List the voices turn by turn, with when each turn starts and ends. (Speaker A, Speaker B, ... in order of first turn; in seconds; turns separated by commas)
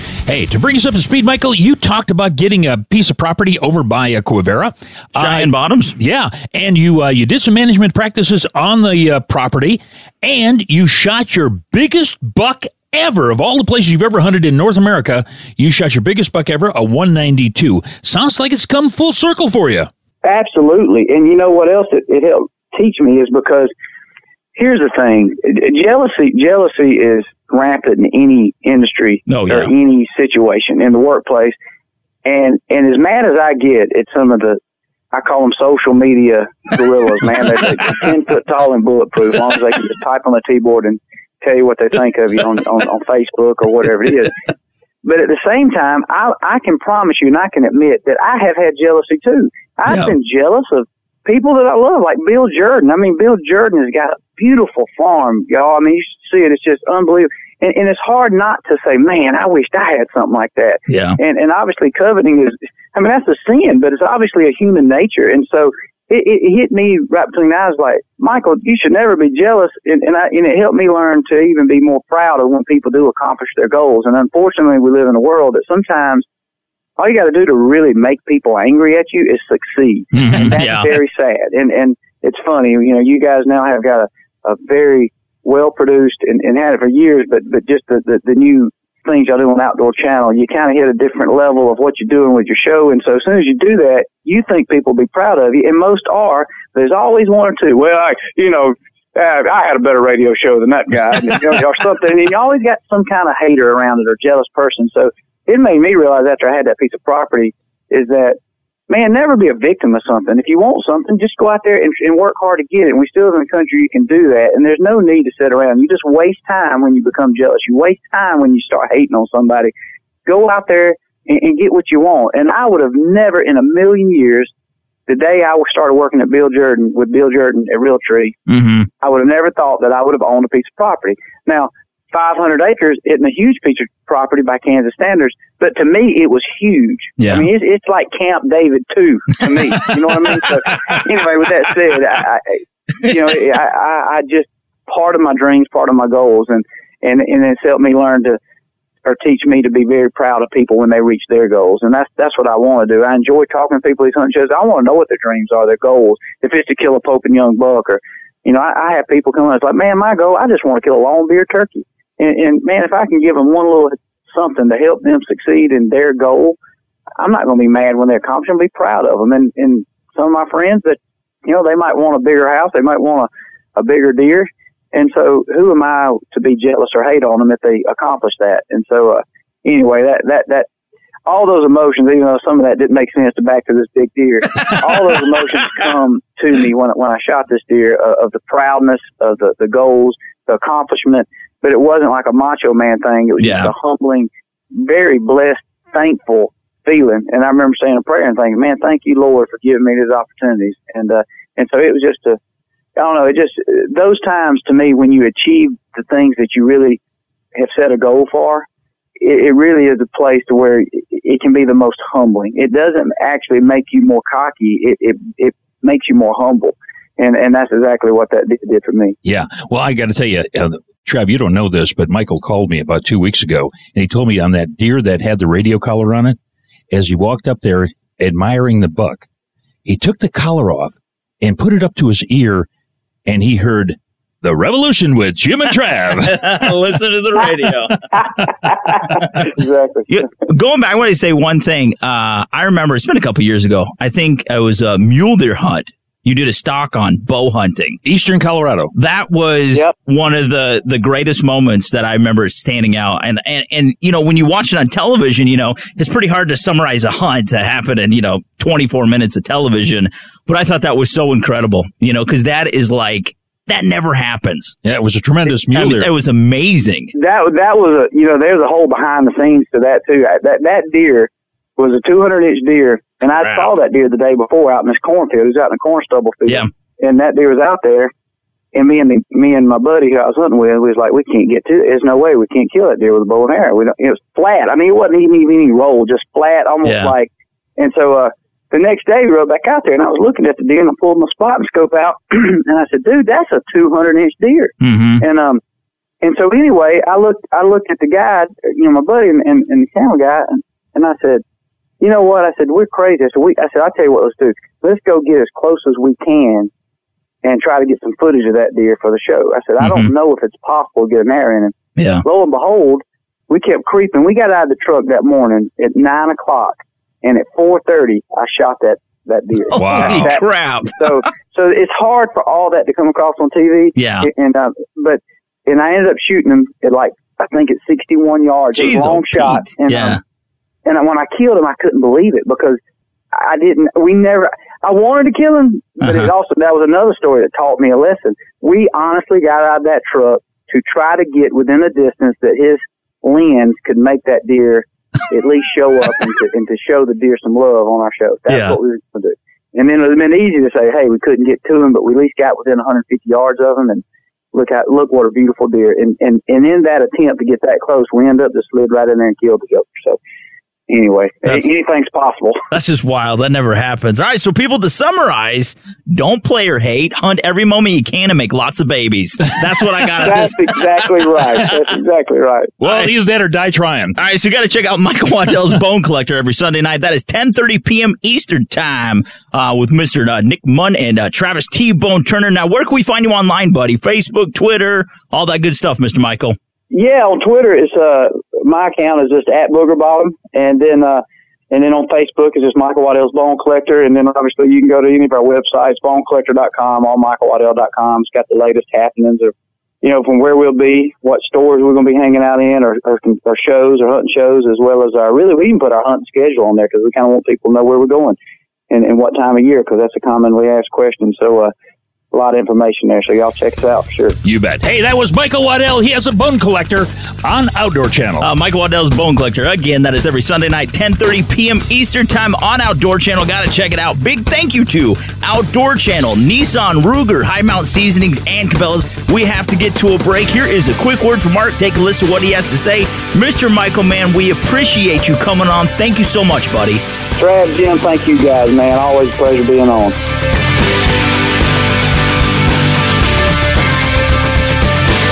Speaker A: 0.3-19.9, Speaker B: 5.2-6.0, Speaker C: 20.2-23.7, Speaker C: 24.6-31.6, Speaker B: 29.3-29.7, Speaker C: 32.2-34.6, Speaker C: 35.1-44.3, Speaker C: 45.0-76.2, Speaker B: 49.9-50.1, Speaker B: 60.9-61.2, Speaker C: 77.0-108.4, Speaker B: 80.1-81.0, Speaker C: 108.9-119.7, Speaker C: 120.3-124.5, Speaker C: 125.1-128.3, Speaker B: 128.5-128.9, Speaker C: 129.0-148.4, Speaker B: 137.2-137.5, Speaker C: 149.1-166.6, Speaker C: 167.2-180.7, Speaker C: 181.3-202.4, Speaker B: 193.4-193.7, Speaker C: 203.0-207.0, Speaker C: 207.6-208.7, Speaker C: 209.2-219.2, Speaker A: 219.2-226.4, Speaker A: 226.9-229.3, Speaker A: 229.8-232.7, Speaker A: 233.3-236.7, Speaker B: 236.2-238.0, Speaker C: 238.1-240.1, Speaker B: 240.1-248.0, Speaker A: 248.1-248.9, Speaker B: 248.9-264.8, Speaker A: 264.8-266.1, Speaker B: 265.6-267.1, Speaker C: 267.1-278.1, Speaker B: 273.4-273.7, Speaker C: 278.7-295.6, Speaker B: 286.9-287.1, Speaker B: 294.8-295.2, Speaker C: 296.2-301.4, Speaker C: 302.0-306.7, Speaker C: 307.4-311.7, Speaker B: 309.8-310.1, Speaker B: 312.0-312.2, Speaker C: 312.2-330.2, Speaker B: 319.7-321.2, Speaker A: 319.8-320.3, Speaker B: 324.0-324.3, Speaker B: 328.8-330.2, Speaker C: 330.9-332.8, Speaker C: 333.3-354.0, Speaker B: 336.0-336.3, Speaker B: 348.5-348.8, Speaker C: 354.5-360.2, Speaker C: 360.9-362.6, Speaker B: 362.7-371.6, Speaker C: 370.2-372.7, Speaker A: 372.8-374.2, Speaker B: 372.8-373.1, Speaker B: 374.2-386.6, Speaker C: 386.9-408.4, Speaker C: 408.9-411.7, Speaker C: 412.3-414.4, Speaker A: 414.4-418.5, Speaker B: 418.4-437.0, Speaker C: 437.4-440.2